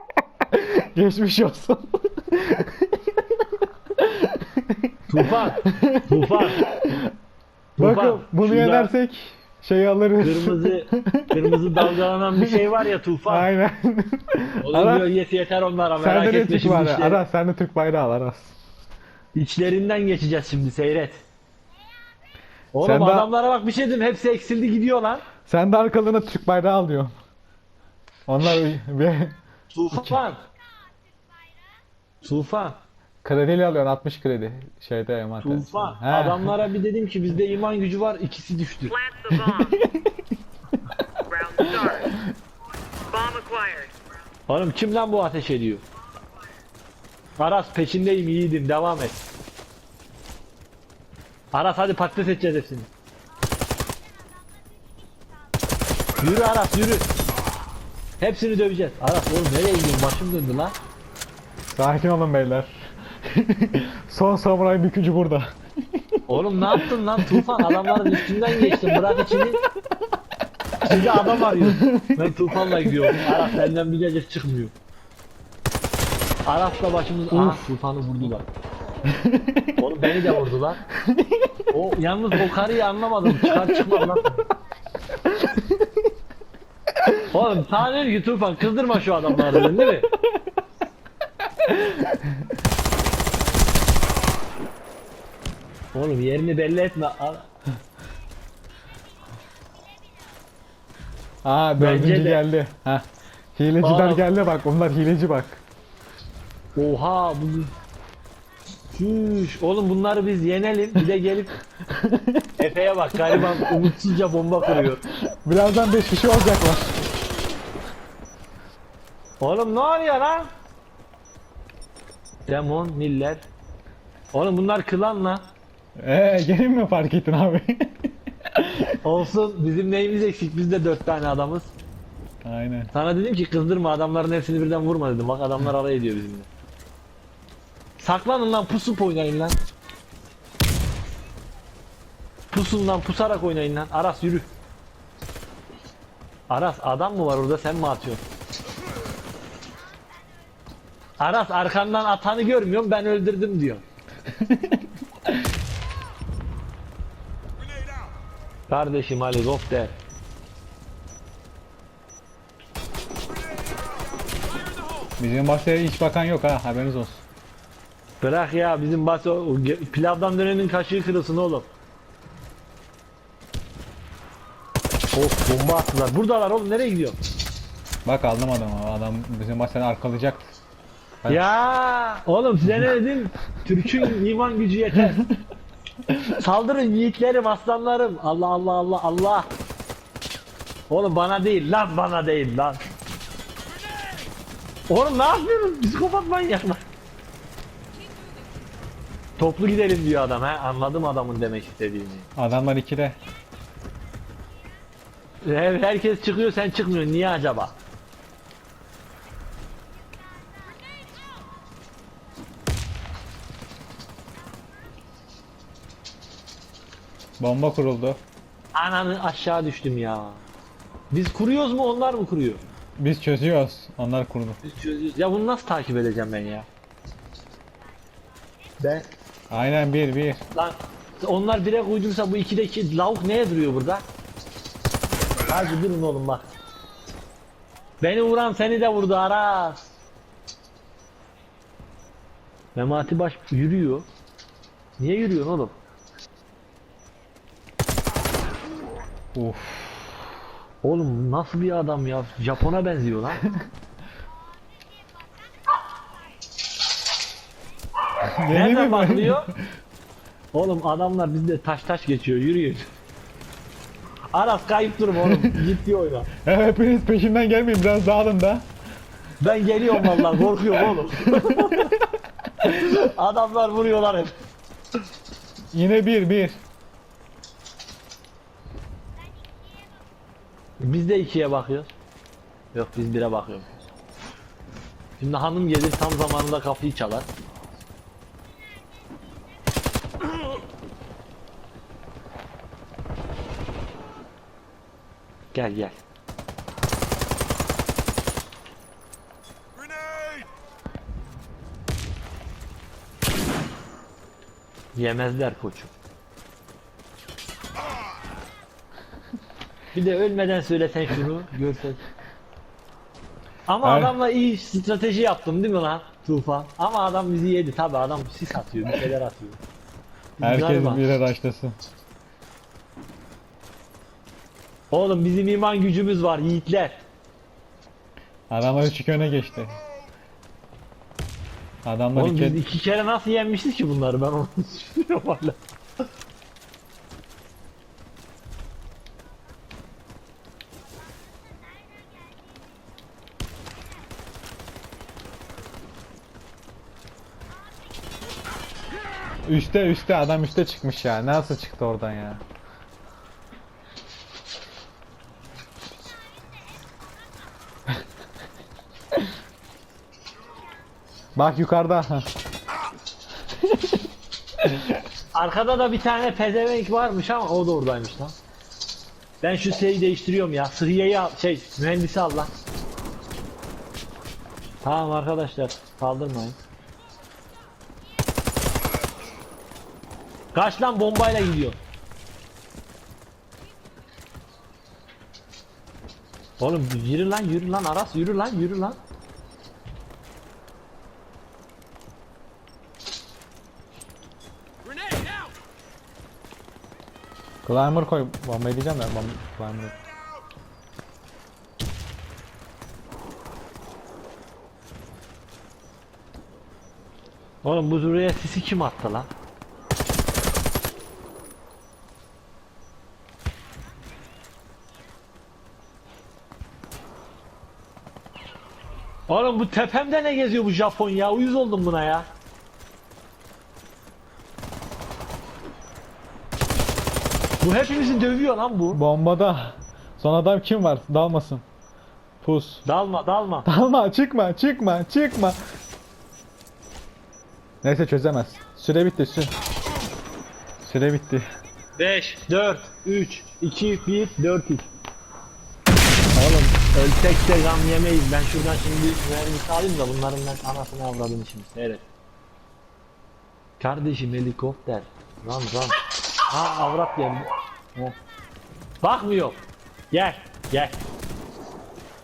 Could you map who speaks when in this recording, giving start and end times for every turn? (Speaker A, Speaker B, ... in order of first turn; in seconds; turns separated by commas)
Speaker A: 0.5-7.1, Speaker B: 5.1-6.7, Speaker B: 7.8-8.9, Speaker A: 7.8-12.7, Speaker B: 10.2-13.5, Speaker A: 13.3-15.1, Speaker B: 14.6-17.2, Speaker A: 16.0-18.6, Speaker B: 19.3-21.2, Speaker B: 22.7-25.2, Speaker A: 22.8-23.3, Speaker A: 25.4-27.1, Speaker A: 28.3-29.4, Speaker B: 29.7-30.4, Speaker A: 29.9-30.2, Speaker B: 32.2-32.8, Speaker A: 33.2-36.6, Speaker B: 35.4-39.0, Speaker C: 38.9-39.8, Speaker A: 39.4-40.2, Speaker C: 41.3-42.1, Speaker A: 41.6-42.1, Speaker C: 43.0-43.9, Speaker B: 44.5-45.8, Speaker B: 47.4-49.2, Speaker B: 51.5-52.9, Speaker B: 56.2-57.1, Speaker B: 58.2-60.7, Speaker A: 61.7-69.4, Speaker B: 66.3-69.6, Speaker B: 70.8-74.7, Speaker A: 70.9-73.5, Speaker B: 76.5-78.5, Speaker A: 77.3-78.3, Speaker A: 79.1-80.4, Speaker B: 79.8-80.8, Speaker A: 81.0-81.6, Speaker B: 81.7-84.5, Speaker A: 82.3-82.6, Speaker A: 83.2-84.2, Speaker A: 85.2-85.9, Speaker A: 87.0-87.2, Speaker B: 87.3-90.1, Speaker A: 89.5-90.5, Speaker A: 91.6-92.5, Speaker B: 95.9-97.5, Speaker A: 101.4-105.6, Speaker B: 101.8-102.4, Speaker B: 103.8-104.2, Speaker B: 106.7-107.7, Speaker B: 108.9-111.5, Speaker A: 111.9-112.5, Speaker B: 112.6-115.0, Speaker A: 113.3-113.9, Speaker A: 115.4-117.0, Speaker B: 119.4-120.5, Speaker B: 122.5-123.5, Speaker B: 124.3-125.5, Speaker A: 126.0-129.0, Speaker B: 129.0-131.7, Speaker A: 132.4-132.9, Speaker B: 132.9-136.5, Speaker B: 138.0-139.6, Speaker B: 142.5-144.5, Speaker B: 146.5-148.2, Speaker B: 151.2-153.8, Speaker A: 154.4-154.8, Speaker B: 158.7-159.9, Speaker A: 165.2-167.2, Speaker B: 168.2-171.7, Speaker B: 175.1-177.2, Speaker A: 178.0-180.5, Speaker A: 181.2-181.6, Speaker B: 181.3-185.2, Speaker B: 186.3-189.5, Speaker B: 190.9-192.8, Speaker B: 194.9-196.8, Speaker B: 199.4-202.3, Speaker A: 202.3-203.2, Speaker B: 205.4-207.8, Speaker A: 217.4-218.2, Speaker B: 218.7-220.4, Speaker B: 221.1-222.6, Speaker A: 223.0-224.6, Speaker B: 224.6-226.7, Speaker B: 228.8-229.1, Speaker A: 229.5-230.4, Speaker B: 230.5-234.0, Speaker B: 235.4-236.5, Speaker B: 238.0-239.8, Speaker B: 242.7-244.1, Speaker B: 245.0-245.8, Speaker A: 249.3-250.2, Speaker B: 250.8-253.4, Speaker A: 258.4-259.6, Speaker B: 258.5-259.5, Speaker B: 260.5-262.9, Speaker B: 264.3-266.3, Speaker A: 265.2-265.6, Speaker A: 266.4-268.7, Speaker B: 269.4-271.9, Speaker A: 269.9-271.9, Speaker B: 272.6-274.4, Speaker A: 275.7-276.6, Speaker B: 280.8-281.9, Speaker B: 282.7-283.7, Speaker B: 285.2-287.3, Speaker B: 295.5-296.0, Speaker B: 304.9-305.9, Speaker B: 309.9-312.0, Speaker B: 313.7-319.6, Speaker A: 313.8-314.1, Speaker B: 320.4-321.1, Speaker A: 320.4-321.8, Speaker B: 324.9-327.1, Speaker A: 328.5-329.8, Speaker A: 331.8-332.6, Speaker B: 332.1-335.6, Speaker A: 349.5-352.4, Speaker A: 361.4-362.3, Speaker A: 363.6-364.0, Speaker A: 364.6-364.9, Speaker B: 365.3-368.3, Speaker B: 369.4-372.5, Speaker B: 374.8-376.6, Speaker B: 380.5-381.8, Speaker B: 386.6-389.0, Speaker A: 397.6-399.9, Speaker B: 407.6-409.3, Speaker B: 419.3-422.3, Speaker B: 427.6-429.0, Speaker A: 428.9-431.6, Speaker A: 432.4-432.8, Speaker B: 432.8-433.7, Speaker A: 433.6-435.6, Speaker A: 437.8-439.5, Speaker A: 440.8-441.4, Speaker B: 442.0-444.9, Speaker B: 446.3-452.1, Speaker B: 453.8-456.0, Speaker B: 456.5-458.1, Speaker B: 459.0-461.0